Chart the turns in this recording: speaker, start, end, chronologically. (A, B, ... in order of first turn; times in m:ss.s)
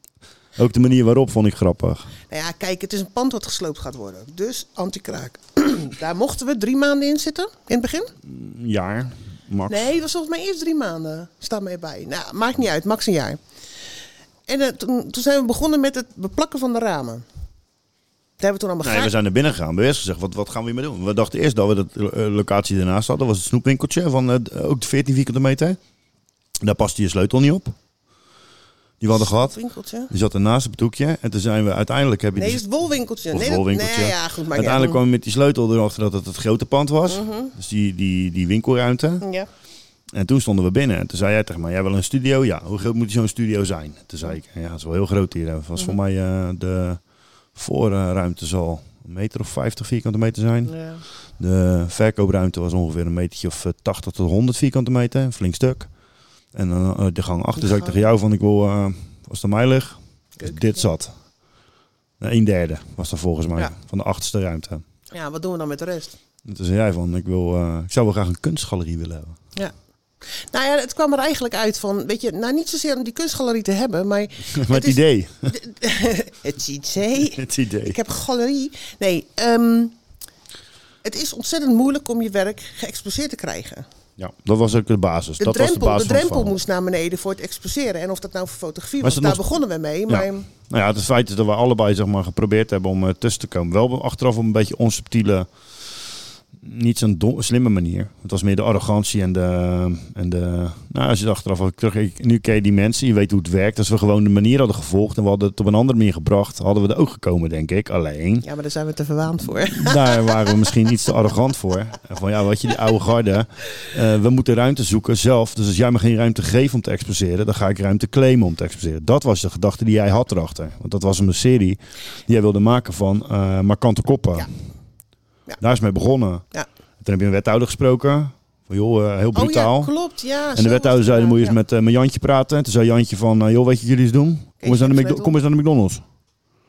0:00.6-0:02.1 A
0:02.3-0:08.1 B
0:08.2-0:09.9 A
0:09.7-0:13.4 B
0:14.5-0:17.2 B
0:18.4-0:19.1 B
0:18.8-0:25.8 A
0:26.6-0:27.7 A
0:29.0-0:29.6 A
0:29.1-0:30.1 B
0:30.1-0:32.6 A
0:32.4-0:35.0 B
0:33.3-0:39.2 A
0:37.1-0:37.5 B
0:39.2-0:39.5 B
0:40.1-0:47.0 A
0:47.5-0:50.7 A
0:50.6-0:51.0 B
0:51.4-0:55.9 A
0:56.5-1:01.1 A
0:57.6-0:58.0 B
1:00.4-1:00.8 B
1:02.2-1:04.8 A
1:05.1-1:06.2 B
1:06.4-1:09.4 A
1:10.5-1:19.9 B
1:14.5-1:15.5 A
1:17.3-1:18.0 A
1:21.0-1:23.8 B
1:24.2-1:26.6 A
1:25.4-1:30.5 B
1:29.0-1:29.5 A
1:30.1-1:35.5 A
1:36.6-1:48.4 A
1:48.4-1:50.7 B
1:49.6-2:04.5 A
2:05.6-2:06.4 A
2:07.0-2:09.9 A
2:09.3-2:11.6 B
2:10.6-2:16.0 A
2:14.6-2:15.3 B